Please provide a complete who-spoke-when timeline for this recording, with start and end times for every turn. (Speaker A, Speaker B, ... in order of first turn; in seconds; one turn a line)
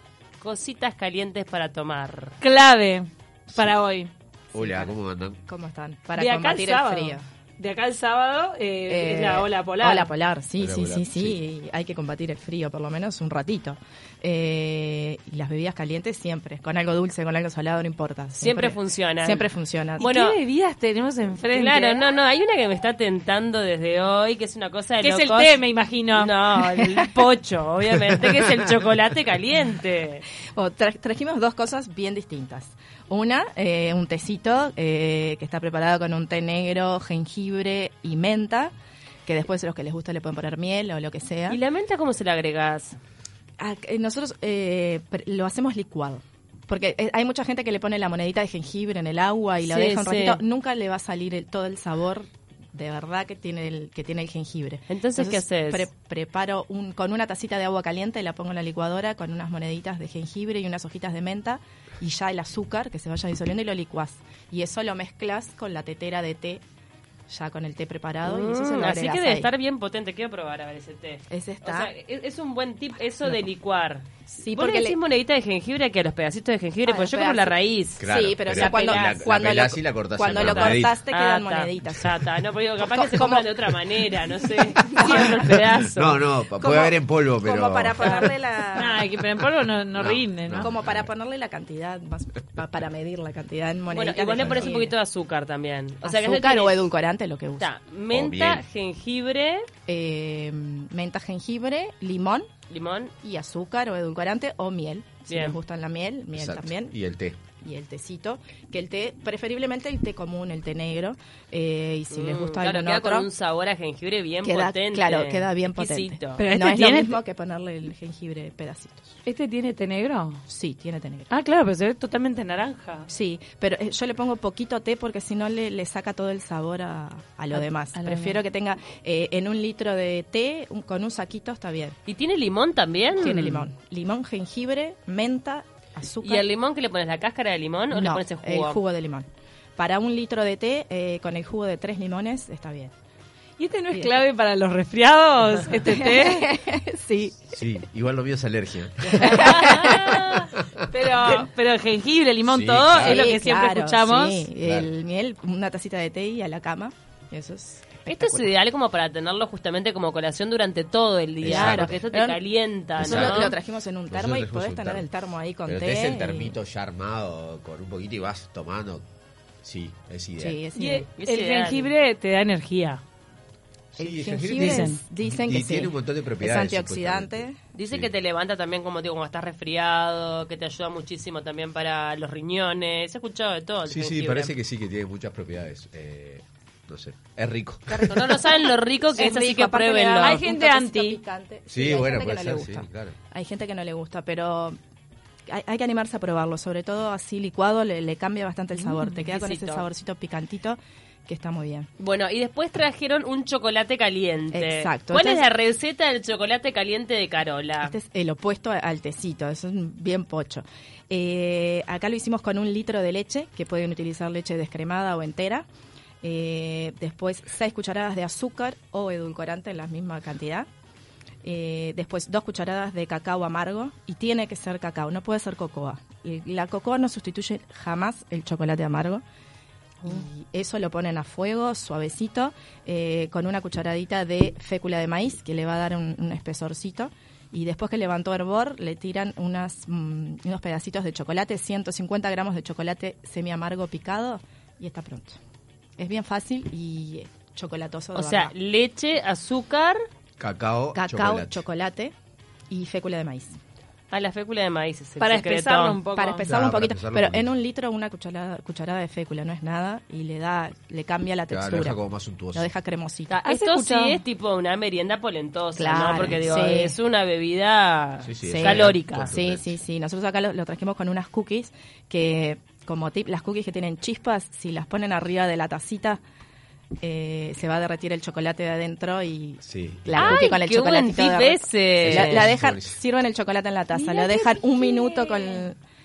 Speaker A: 0.4-2.4
Speaker B: 2.4-4.1
Speaker C: 4.5-5.4
Speaker D: 4.5-4.9
Speaker D: 5.5-7.2
Speaker B: 6.2-10.1
Speaker D: 8.9-20.1
Speaker C: 10.6-11.3
Speaker A: 18.4-19.5
Speaker A: 20.0-20.4
Speaker B: 20.0-22.0
Speaker A: 21.5-25.6
Speaker B: 25.0-26.6
Speaker A: 26.1-30.2
Speaker D: 30.6-38.7
Speaker D: 39.2-41.6
Speaker A: 41.5-43.0
Speaker D: 43.6-66.6
Speaker A: 49.6-50.4
Speaker A: 54.9-55.9
Speaker D: 67.3-69.5
Speaker A: 68.2-79.2
Speaker D: 71.3-71.9
Speaker D: 74.3-75.0
Speaker D: 76.8-82.1
Speaker C: 78.0-81.0
Speaker A: 80.2-86.1
Speaker D: 82.8-83.7
Speaker D: 84.8-85.4
Speaker C: 85.8-88.3
Speaker D: 86.6-89.0
Speaker B: 88.7-90.7
Speaker C: 89.9-91.1
Speaker D: 90.6-94.9
Speaker A: 93.9-96.8
Speaker C: 94.4-94.7
Speaker D: 96.0-97.7
Speaker A: 97.6-99.7
Speaker C: 98.1-98.6
Speaker D: 99.9-102.5
Speaker A: 102.7-103.1
Speaker D: 103.2-106.9
Speaker A: 105.3-105.6
Speaker C: 106.3-107.4
Speaker D: 107.6-113.3
Speaker A: 112.1-116.4
Speaker D: 114.4-119.2
Speaker B: 116.4-117.2
Speaker B: 119.2-120.4
Speaker D: 120.5-121.3
Speaker B: 121.3-123.1
Speaker D: 123.1-131.9
Speaker B: 127.5-128.4
Speaker A: 132.1-133.7
Speaker D: 133.2-136.5
Speaker A: 136.2-138.8
Speaker D: 137.9-142.9
Speaker B: 143.6-146.5
Speaker D: 145.8-147.5
Speaker C: 147.5-149.9
Speaker A: 149.0-150.5
Speaker D: 149.1-150.2
Speaker B: 150.9-154.5
Speaker C: 152.4-153.3
Speaker D: 152.9-158.5
Speaker C: 154.6-154.9
Speaker A: 158.0-163.5
Speaker C: 161.4-162.0
Speaker D: 161.4-162.4
Speaker C: 163.0-163.6
Speaker D: 163.0-166.6
Speaker C: 164.1-165.1
Speaker C: 165.7-169.0
Speaker C: 169.6-170.6
Speaker D: 170.4-171.1
Speaker B: 170.8-173.0
Speaker A: 171.2-171.9
Speaker C: 173.9-178.1
Speaker D: 174.0-177.6
Speaker B: 174.6-175.0
Speaker A: 177.7-184.5
Speaker C: 183.9-188.4
Speaker A: 187.9-190.5
Speaker D: 189.1-194.8
Speaker B: 190.2-191.2
Speaker C: 191.7-193.1
Speaker D: 195.5-201.9
Speaker A: 199.1-199.9
Speaker A: 202.0-207.9
Speaker D: 204.5-205.4
Speaker D: 207.8-215.6
Speaker D: 216.2-220.7
Speaker D: 221.4-229.2
Speaker D: 230.1-245.4
Speaker D: 246.0-248.5
Speaker A: 248.1-250.0
Speaker C: 250.4-251.6
Speaker D: 250.9-252.1
Speaker D: 252.7-253.6
Speaker A: 254.1-256.0
Speaker B: 255.2-256.6
Speaker D: 256.1-262.0
Speaker C: 256.4-257.5
Speaker C: 261.5-262.7
Speaker D: 262.5-263.3
Speaker A: 263.3-269.3
Speaker B: 263.4-264.2
Speaker D: 265.8-266.9
Speaker C: 266.2-266.7
Speaker C: 268.2-269.8
Speaker D: 268.4-276.2
Speaker D: 277.0-285.8
Speaker C: 279.6-280.5
Speaker A: 280.1-282.5
Speaker C: 282.0-283.0
Speaker B: 283.9-285.6